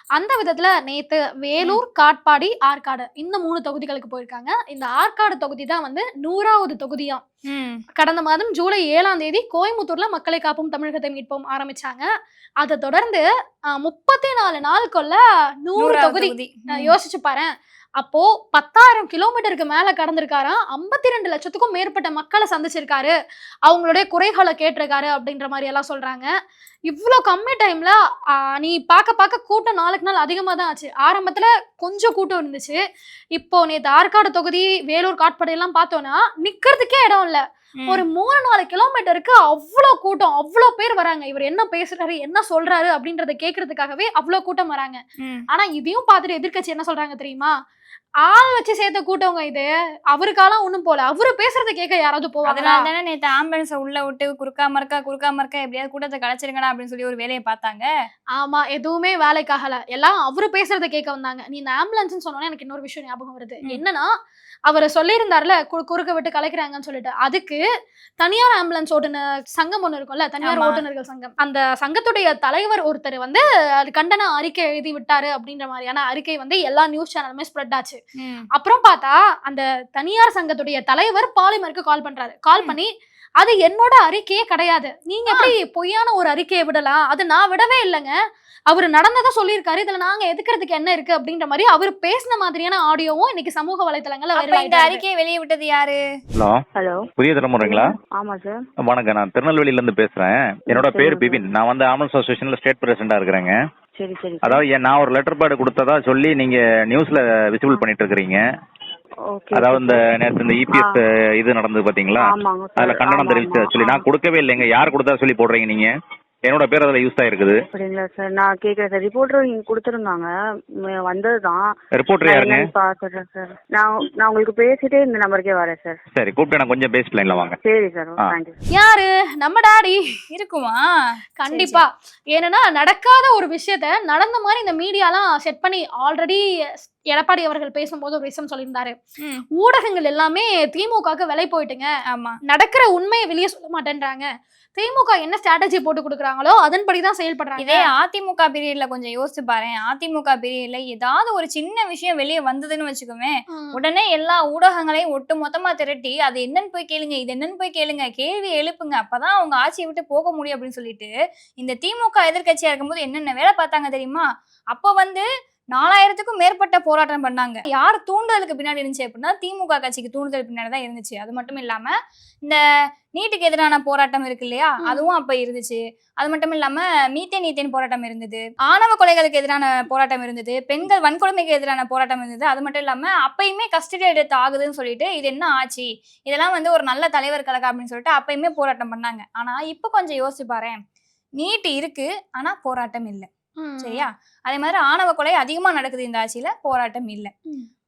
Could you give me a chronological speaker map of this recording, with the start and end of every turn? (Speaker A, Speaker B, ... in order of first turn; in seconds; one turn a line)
Speaker A: 0.1-7.2
Speaker B: 7.5-7.8
Speaker A: 8.0-12.1
Speaker A: 12.6-23.1
Speaker B: 15.8-16.9
Speaker A: 23.7-26.3
Speaker A: 26.9-27.9
Speaker A: 28.6-32.8
Speaker A: 33.4-47.5
Speaker A: 48.2-52.9
Speaker B: 52.5-57.9
Speaker A: 58.4-64.1
Speaker A: 64.7-67.6
Speaker A: 68.2-78.0
Speaker B: 70.5-70.8
Speaker B: 78.2-78.5
Speaker A: 78.5-82.9
Speaker A: 83.4-88.1
Speaker A: 88.7-95.0
Speaker B: 94.4-96.0
Speaker C: 96.3-96.7
Speaker D: 96.8-97.0
Speaker C: 97.2-97.9
Speaker D: 97.6-98.6
Speaker C: 98.9-103.6
Speaker D: 100.7-101.5
Speaker D: 104.0-104.6
Speaker C: 104.4-108.4
Speaker D: 109.3-110.0
Speaker C: 109.5-115.9
Speaker D: 112.2-114.1
Speaker C: 116.5-117.6
Speaker D: 117.7-120.3
Speaker D: 120.9-121.7
Speaker C: 122.0-122.7
Speaker D: 122.2-126.0
Speaker C: 126.2-127.6
Speaker D: 127.6-128.6
Speaker A: 128.7-130.0
Speaker B: 130.3-130.9
Speaker A: 131.4-138.9
Speaker B: 131.5-131.8
Speaker A: 139.6-141.9
Speaker B: 142.1-142.4
Speaker A: 142.5-147.9
Speaker B: 147.6-171.9
Speaker B: 173.2-190.8
Speaker A: 174.8-175.1
Speaker B: 191.4-193.3
Speaker A: 193.6-194.1
Speaker B: 193.8-197.3